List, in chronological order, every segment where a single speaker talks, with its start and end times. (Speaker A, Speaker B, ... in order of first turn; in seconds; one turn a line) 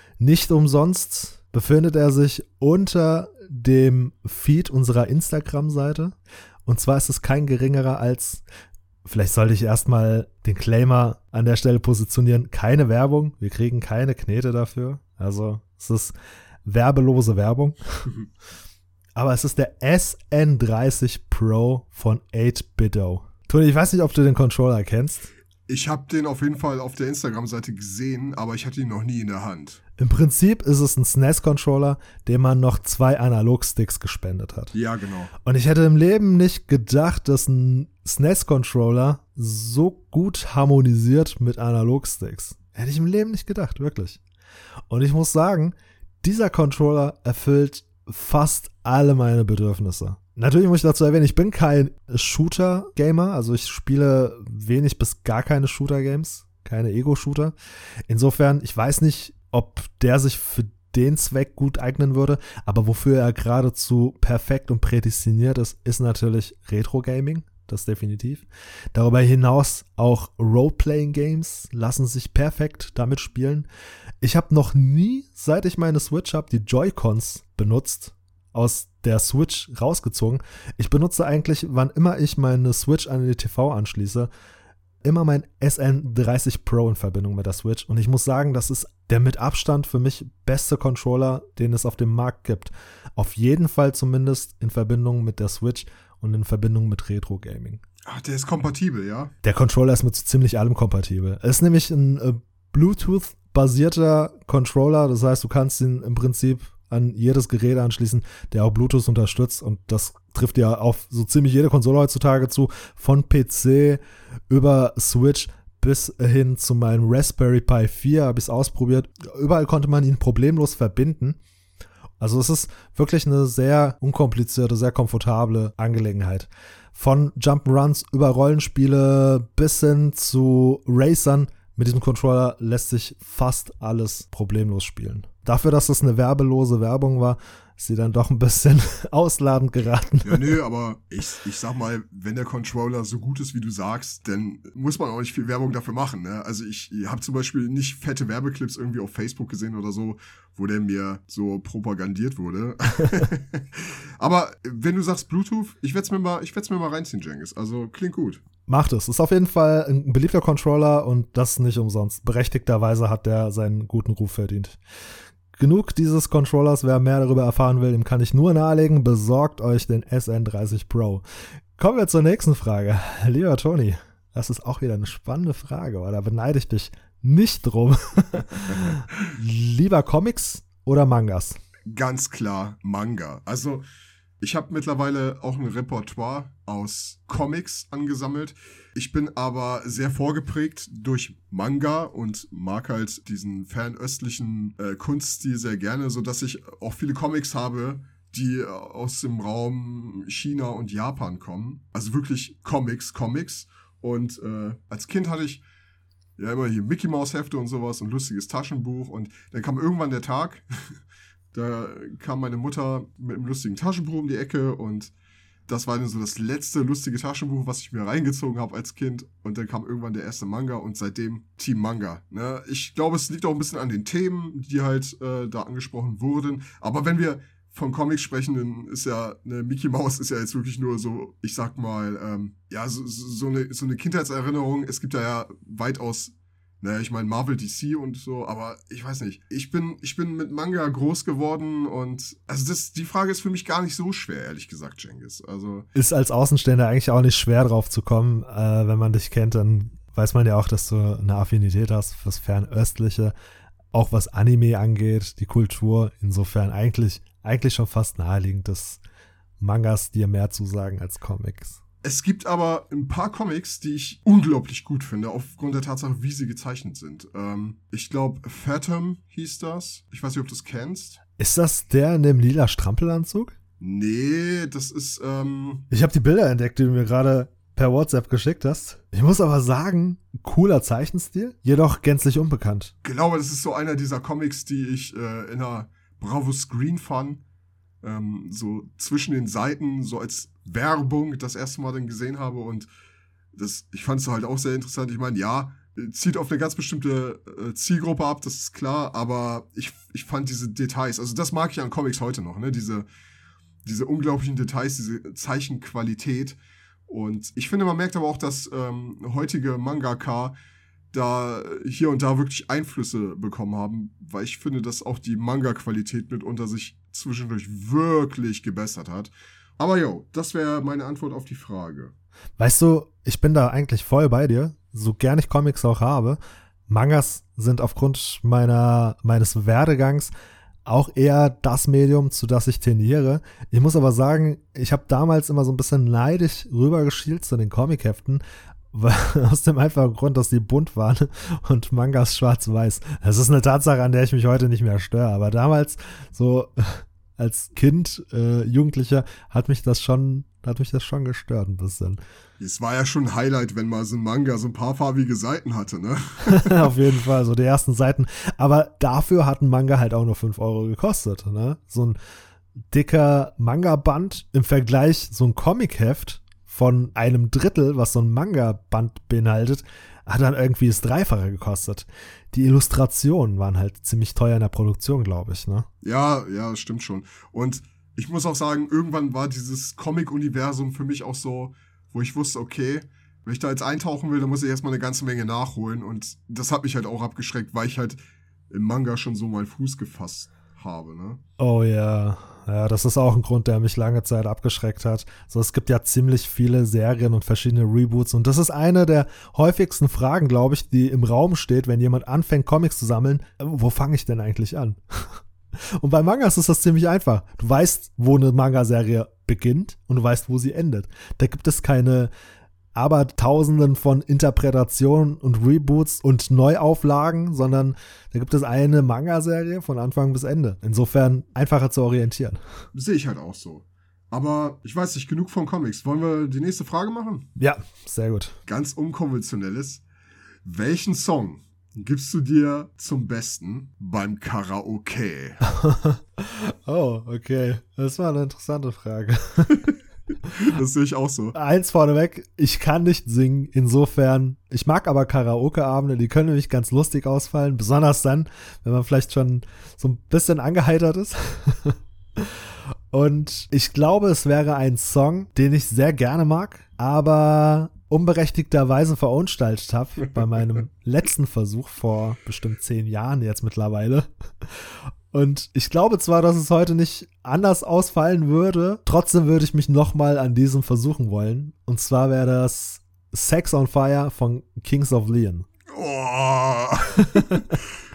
Speaker A: 0.2-8.4
Speaker A: 9.0-16.1
Speaker A: 16.6-18.1
Speaker A: 19.1-25.3
Speaker B: 25.7-29.8
Speaker A: 30.0-34.8
Speaker B: 34.7-35.3
Speaker A: 35.4-44.2
Speaker A: 44.9-57.5
Speaker A: 58.1-73.7
Speaker A: 74.2-84.3
Speaker A: 85.0-97.8
Speaker B: 98.0-99.3
Speaker A: 99.4-121.4
Speaker A: 122.2-140.6
Speaker B: 140.2-158.4
Speaker A: 158.7-164.8
Speaker A: 165.6-171.2
Speaker A: 171.8-181.6
Speaker B: 181.9-183.8
Speaker B: 184.4-205.6
Speaker B: 206.4-211.0
Speaker B: 211.5-215.1
Speaker B: 215.7-245.9
Speaker A: 245.9-253.3
Speaker A: 253.9-259.0
Speaker A: 259.6-261.8
Speaker B: 262.0-271.2
Speaker A: 271.4-273.5
Speaker B: 273.8-275.9
Speaker A: 275.9-282.9
Speaker B: 283.0-287.4
Speaker B: 288.0-292.9
Speaker B: 293.5-303.1
Speaker B: 303.8-310.5
Speaker B: 311.1-322.1
Speaker A: 322.6-330.3
Speaker A: 330.9-338.4
Speaker A: 338.9-352.2
Speaker B: 352.6-356.9
Speaker A: 356.4-362.2
Speaker A: 362.9-375.9
Speaker B: 376.0-388.2
Speaker B: 388.7-391.4
Speaker A: 391.6-405.4
Speaker A: 406.0-412.3
Speaker A: 412.9-422.6
Speaker B: 422.9-427.5
Speaker A: 427.6-428.6
Speaker B: 428.6-430.0
Speaker B: 430.6-435.6
Speaker A: 435.6-439.8
Speaker B: 440.4-441.6
Speaker A: 441.5-452.5
Speaker A: 453.1-475.6
Speaker B: 475.9-477.7
Speaker A: 477.2-477.8